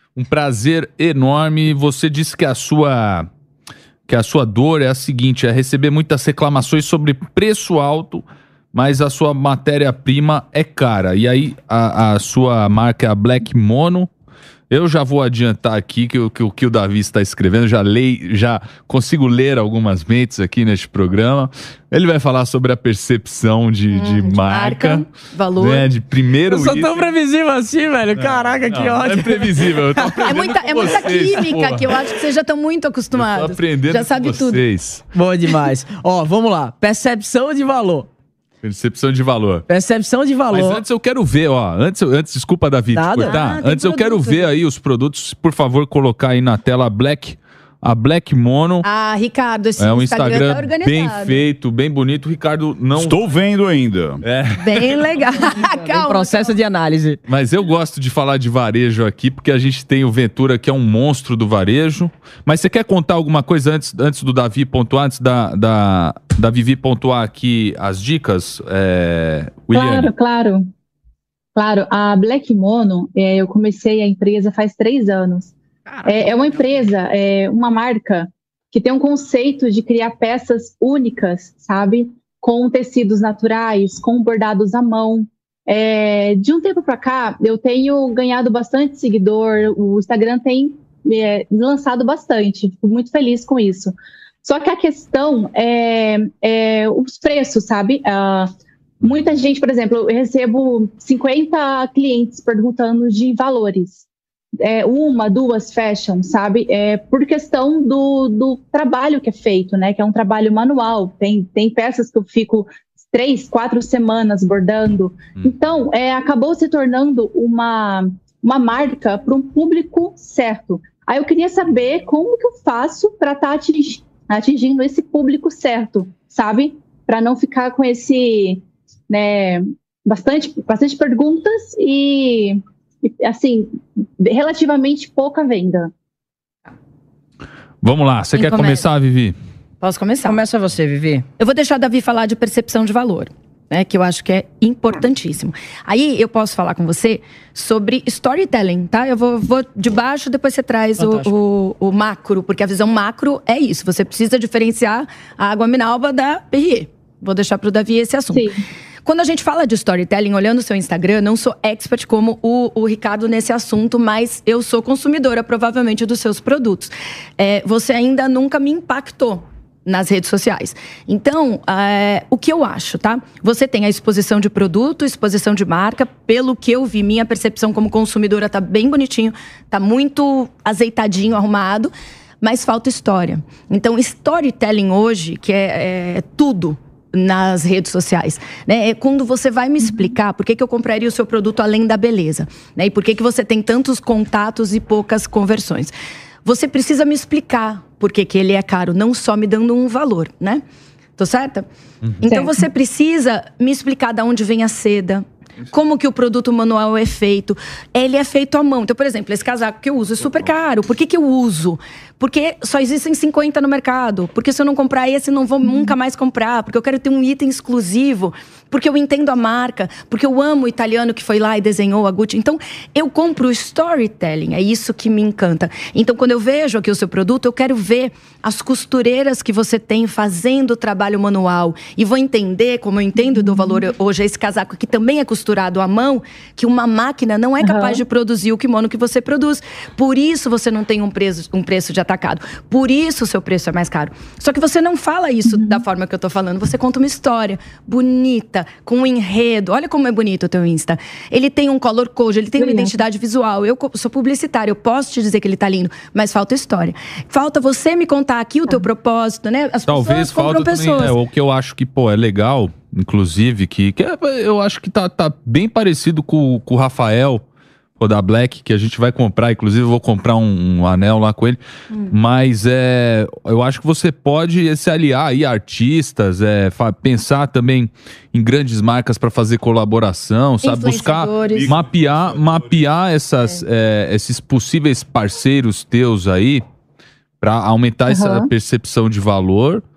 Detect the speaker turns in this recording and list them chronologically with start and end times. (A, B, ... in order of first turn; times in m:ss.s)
0:00.2-0:03.3 A
0:04.1-0:14.1 A
0:14.7-0:25.0 A
0:23.9-0:25.9 B
0:25.6-0:27.1 A
0:26.5-0:30.3 C
0:28.2-0:28.5 D
0:28.7-0:32.0 A
0:30.2-0:34.6 B
0:33.1-0:35.0 A
0:35.1-0:38.1 C
0:38.6-0:39.7 A
0:39.7-0:40.8 C
0:40.5-0:48.8 A
0:42.9-0:43.4 C
0:43.2-0:44.6 B
0:48.8-0:51.4 B
0:49.8-0:53.2 A
0:52.9-0:54.2 D
0:54.2-0:55.1 A
0:54.6-0:56.5 B
0:55.6-0:57.2 C
0:57.3-1:10.1 A
1:09.7-1:10.7 E
1:11.6-1:15.5 E
1:15.8-1:16.9 C
1:16.0-1:38.5 E
1:39.0-1:44.0 E
1:44.6-2:15.9 E
2:17.8-2:19.4 A
2:18.3-2:18.8 B
2:19.8-2:20.4 B
2:20.2-2:21.2 C
2:21.4-2:38.5 B
2:31.0-2:31.3 C
2:38.3-2:38.6 E
2:39.0-3:15.9 B
3:16.4-3:20.6 B
3:21.2-3:21.7 B
3:22.2-4:21.2 B
3:22.2-3:22.6 E
3:35.6-3:35.9 E
3:53.2-3:53.8 E
3:57.6-3:58.0 E
4:05.5-4:05.8 E
4:12.6-4:13.0 E
4:19.9-4:27.4 A
4:28.0-4:31.6 A
4:31.9-4:32.2 B
4:32.1-4:46.6 A
4:40.6-4:41.7 B
4:41.5-4:42.8 D
4:47.4-4:49.8 A
4:48.1-4:48.5 E